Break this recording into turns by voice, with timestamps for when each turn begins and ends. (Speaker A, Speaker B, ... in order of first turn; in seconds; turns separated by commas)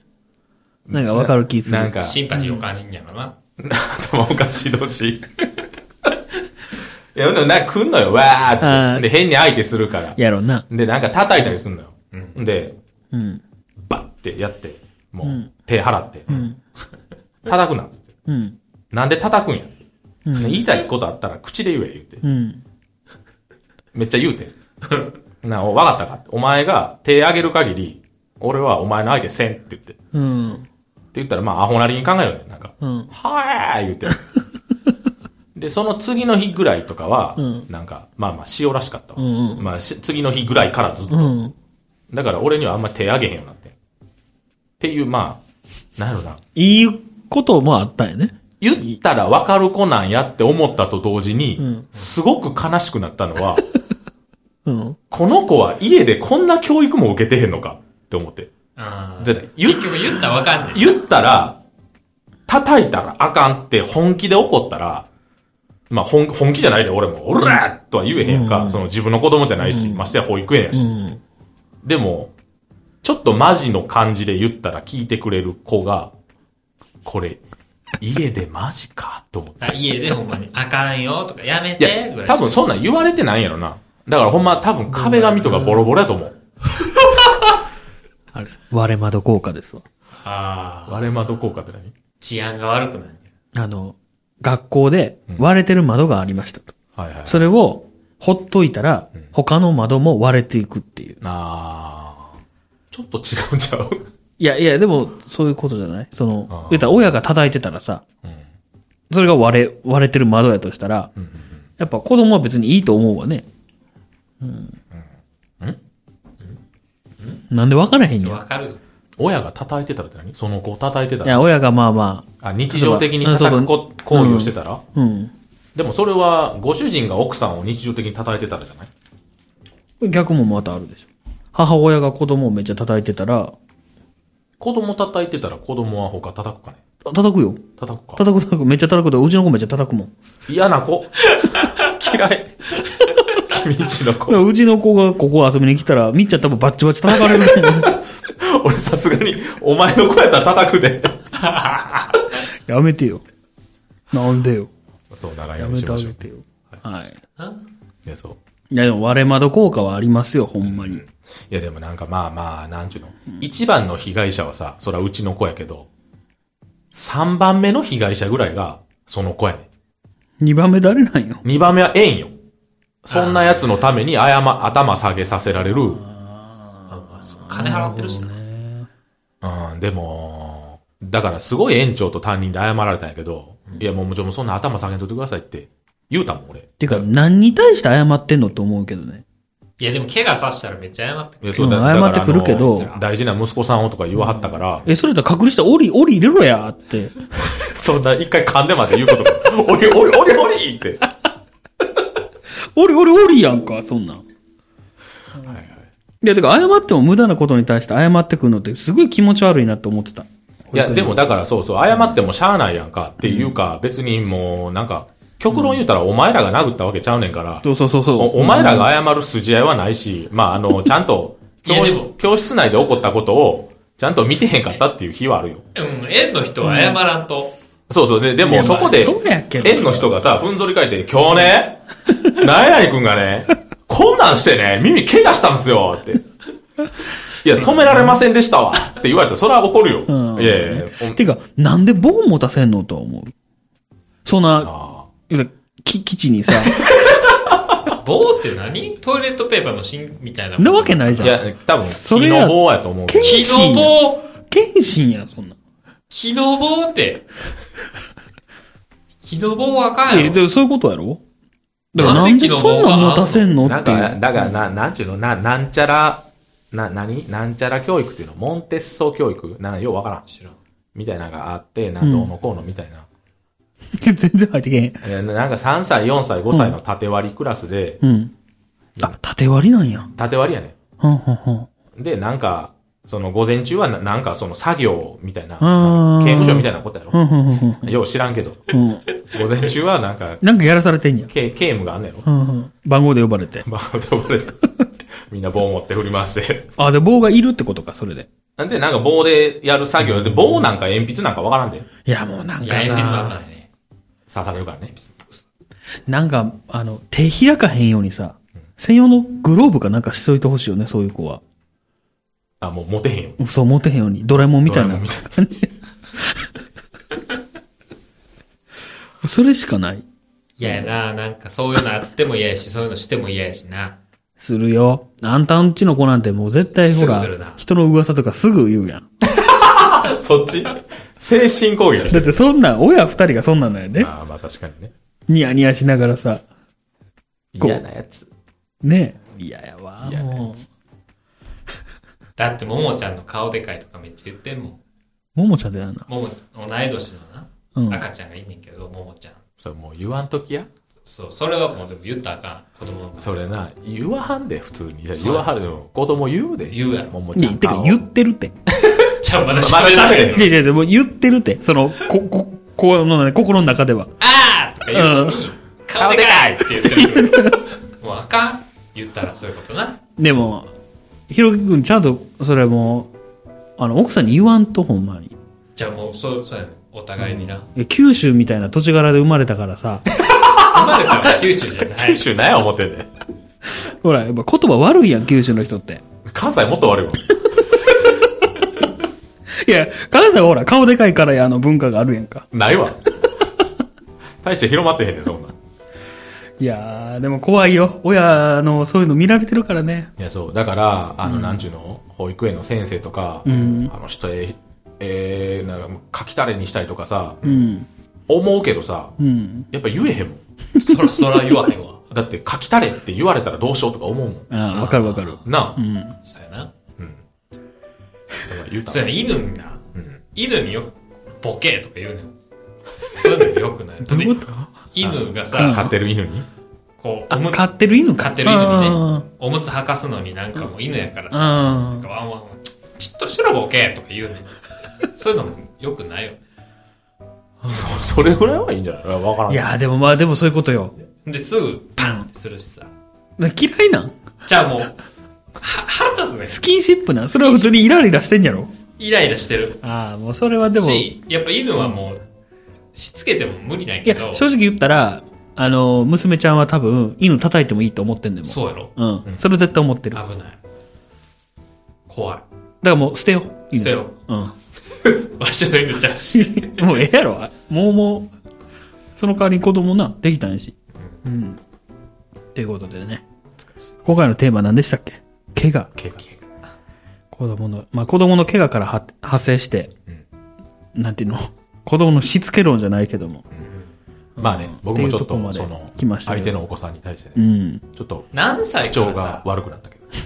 Speaker A: 0.9-2.2, Speaker B: 0.9-2.6, Speaker C: 2.0-3.4, Speaker A: 3.6-5.5, Speaker A: 7.1-10.2, Speaker B: 8.6-9.1, Speaker B: 10.2-10.7, Speaker A: 10.7-12.8, Speaker B: 13.1-13.4, Speaker A: 13.9-16.4, Speaker B: 15.2-15.5, Speaker B: 16.3-16.6, Speaker A: 17.5-18.0, Speaker B: 18.3-18.6, Speaker A: 18.9-19.8, Speaker B: 20.2-20.7, Speaker A: 20.4-22.2, Speaker B: 22.2-22.6, Speaker A: 23.9-24.5, Speaker A: 25.4-30.0, Speaker B: 30.1-30.7, Speaker A: 31.1-34.2, Speaker B: 32.8-33.1, Speaker A: 35.5-41.4, Speaker B: 37.4-37.7, Speaker B: 39.2-39.7, Speaker B: 41.1-41.5, Speaker A: 42.1-43.8, Speaker A: 44.8-45.4, Speaker A: 46.0-46.4, Speaker B: 46.6-48.4, Speaker A: 48.6-53.6, Speaker B: 51.6-51.9, Speaker B: 54.6-55.0, Speaker A: 55.1-58.5, Speaker C: 58.8-61.0, Speaker A: 59.2-61.6, Speaker A: 62.5-65.1, Speaker A: 65.9-70.9, Speaker B: 68.2-68.8, Speaker B: 69.6-70.1, Speaker B: 70.7-71.2, Speaker A: 71.8-72.3, Speaker A: 73.0-76.1, Speaker A: 77.0-77.4, Speaker A: 78.0-79.8, Speaker C: 79.6-82.6, Speaker A: 81.8-86.4, Speaker B: 84.9-85.9, Speaker B: 88.3-89.8, Speaker C: 90.2-91.1, Speaker A: 90.9-91.9, Speaker C: 92.2-93.3, Speaker B: 93.5-101.2, Speaker A: 97.0-97.5, Speaker A: 101.2-102.4, Speaker A: 102.9-104.1, Speaker B: 104.4-108.0, Speaker A: 106.5-107.0, Speaker B: 109.1-111.1, Speaker A: 111.2-111.6, Speaker B: 111.8-113.5, Speaker B: 114.4-114.8, Speaker B: 117.5-118.4, Speaker C: 118.2-118.8, Speaker A: 119.2-121.5, Speaker B: 121.2-125.3, Speaker A: 122.4-124.8, Speaker A: 125.8-128.9, Speaker B: 130.0-133.5, Speaker A: 134.6-136.8, Speaker B: 137.0-140.1, Speaker A: 137.8-138.2, Speaker A: 140.5-144.4, Speaker B: 144.3-148.0, Speaker A: 147.1-151.3, Speaker C: 151.4-152.2, Speaker B: 152.7-153.2, Speaker B: 154.1-154.7, Speaker A: 155.1-156.3, Speaker B: 155.6-157.2, Speaker C: 157.4-157.6, Speaker A: 158.0-158.4, Speaker B: 158.7-161.0, Speaker A: 160.6-165.9, Speaker A: 166.9-169.7, Speaker B: 170.4-171.4, Speaker A: 171.4-172.3, Speaker A: 173.0-176.0, Speaker C: 173.1-173.8, Speaker B: 175.9-178.9, Speaker C: 176.9-178.3, Speaker A: 179.4-187.1, Speaker B: 186.8-189.2, Speaker C: 189.8-193.0, Speaker A: 191.4-194.9, Speaker B: 191.6-192.9, Speaker B: 194.1-197.1, Speaker A: 197.4-201.1, Speaker B: 202.8-204.2, Speaker A: 205.4-205.9, Speaker B: 206.2-211.2, Speaker A: 210.7-217.7, Speaker B: 213.2-213.6, Speaker B: 215.5-215.8, Speaker B: 217.6-218.9, Speaker A: 218.2-225.6, Speaker C: 221.6-222.1, Speaker C: 225.8-227.6, Speaker B: 226.6-227.0, Speaker A: 227.9-236.2, Speaker B: 228.4-230.1, Speaker A: 237.4-241.2, Speaker B: 237.7-238.2, Speaker B: 240.1-243.3, Speaker B: 244.2-244.7, Speaker A: 244.6-245.1, Speaker B: 245.3-246.9, Speaker A: 246.7-247.8, Speaker C: 247.9-251.4, Speaker B: 250.6-255.6, Speaker A: 251.2-253.8, Speaker C: 253.2-254.3, Speaker C: 256.1-257.2, Speaker C: 259.2-260.4, Speaker B: 260.1-261.2, Speaker B: 261.9-264.5, Speaker C: 262.0-263.5, Speaker A: 263.6-270.2, Speaker C: 270.3-270.6, Speaker A: 270.9-273.1, Speaker B: 272.0-272.3, Speaker B: 273.9-275.0, Speaker A: 275.0-278.0, Speaker B: 276.5-276.8, Speaker B: 278.0-278.3, Speaker B: 279.0-280.1, Speaker A: 280.1-280.8, Speaker B: 281.0-281.7, Speaker A: 282.0-287.2, Speaker B: 285.6-288.0, Speaker A: 287.8-290.4, Speaker B: 288.7-289.0, Speaker B: 290.4-291.3, Speaker A: 291.3-292.2, Speaker B: 292.2-293.6, Speaker A: 293.6-294.7, Speaker A: 295.2-296.7, Speaker B: 296.8-298.3, Speaker A: 298.6-301.9, Speaker B: 302.1-303.4, Speaker C: 302.6-303.7, Speaker A: 304.3-304.9, Speaker C: 304.9-305.4, Speaker B: 306.1-311.4, Speaker A: 312.6-313.4, Speaker B: 313.4-316.5, Speaker A: 314.6-315.4, Speaker B: 319.2-320.1, Speaker C: 320.6-324.0, Speaker B: 320.6-320.9, Speaker B: 324.4-329.1, Speaker C: 326.9-327.6, Speaker A: 329.2-332.4, Speaker B: 332.1-334.1, Speaker A: 334.0-334.9, Speaker B: 335.3-336.4, Speaker A: 337.5-338.3, Speaker B: 338.8-340.6, Speaker A: 340.0-340.4, Speaker C: 342.4-344.8, Speaker B: 345.4-346.1, Speaker C: 346.1-349.4, Speaker B: 347.8-348.0, Speaker A: 349.6-350.7, Speaker C: 351.1-353.4, Speaker A: 353.2-358.0, Speaker C: 355.1-355.5, Speaker C: 356.7-357.1, Speaker B: 357.4-358.5, Speaker A: 358.7-360.5, Speaker C: 359.2-360.5, Speaker B: 360.3-364.1, Speaker C: 364.2-370.0, Speaker B: 364.9-365.5, Speaker A: 366.0-367.0, Speaker B: 366.9-367.6, Speaker B: 370.2-370.7, Speaker B: 371.3-373.1, Speaker B: 373.8-375.4, Speaker C: 375.8-377.7, Speaker B: 377.3-380.1, Speaker A: 380.1-383.1, Speaker C: 380.6-382.2, Speaker B: 383.8-386.0, Speaker A: 386.2-387.4, Speaker B: 387.5-388.5, Speaker B: 389.5-392.5, Speaker A: 392.5-393.1, Speaker A: 394.4-395.5, Speaker B: 396.6-400.1, Speaker A: 400.2-407.5, Speaker B: 401.2-401.6, Speaker B: 403.4-403.9, Speaker B: 407.4-407.9, Speaker A: 408.3-409.1, Speaker B: 409.2-409.7, Speaker A: 409.7-410.4, Speaker C: 410.8-412.0, Speaker A: 412.1-414.5, Speaker B: 414.5-416.1, Speaker C: 414.7-415.5, Speaker A: 415.4-415.8, Speaker C: 416.2-416.7, Speaker A: 418.5-419.2, Speaker C: 418.9-419.8, Speaker C: 420.4-422.4, Speaker C: 423.1-425.9, Speaker B: 424.0-424.7, Speaker A: 425.0-426.5, Speaker B: 425.5-425.9, Speaker C: 427.0-436.4, Speaker B: 427.3-429.2, Speaker B: 431.3-432.1, Speaker B: 437.6-437.9, Speaker A: 437.7-439.6, Speaker B: 439.5-440.9, Speaker C: 441.2-442.9, Speaker B: 442.0-442.3, Speaker B: 443.4-444.2, Speaker C: 444.4-445.0, Speaker C: 445.6-446.6, Speaker B: 446.5-448.7, Speaker C: 447.3-447.8, Speaker C: 449.0-449.8, Speaker B: 449.8-451.1, Speaker C: 450.7-452.2, Speaker C: 452.9-454.4, Speaker B: 454.0-460.2, Speaker C: 458.5-458.9, Speaker C: 460.1-460.6, Speaker C: 462.1-462.4, Speaker B: 462.8-464.5, Speaker C: 463.7-464.1, Speaker C: 465.0-466.9, Speaker B: 466.3-468.3, Speaker B: 469.1-471.6, Speaker B: 472.5-473.2, Speaker C: 473.6-474.0, Speaker B: 474.1-475.9, Speaker A: 476.0-476.4, Speaker B: 477.3-479.9, Speaker B: 480.9-483.4, Speaker B: 484.4-486.6, Speaker A: 484.4-487.4, Speaker B: 487.4-487.9, Speaker A: 487.9-490.1, Speaker C: 488.3-489.4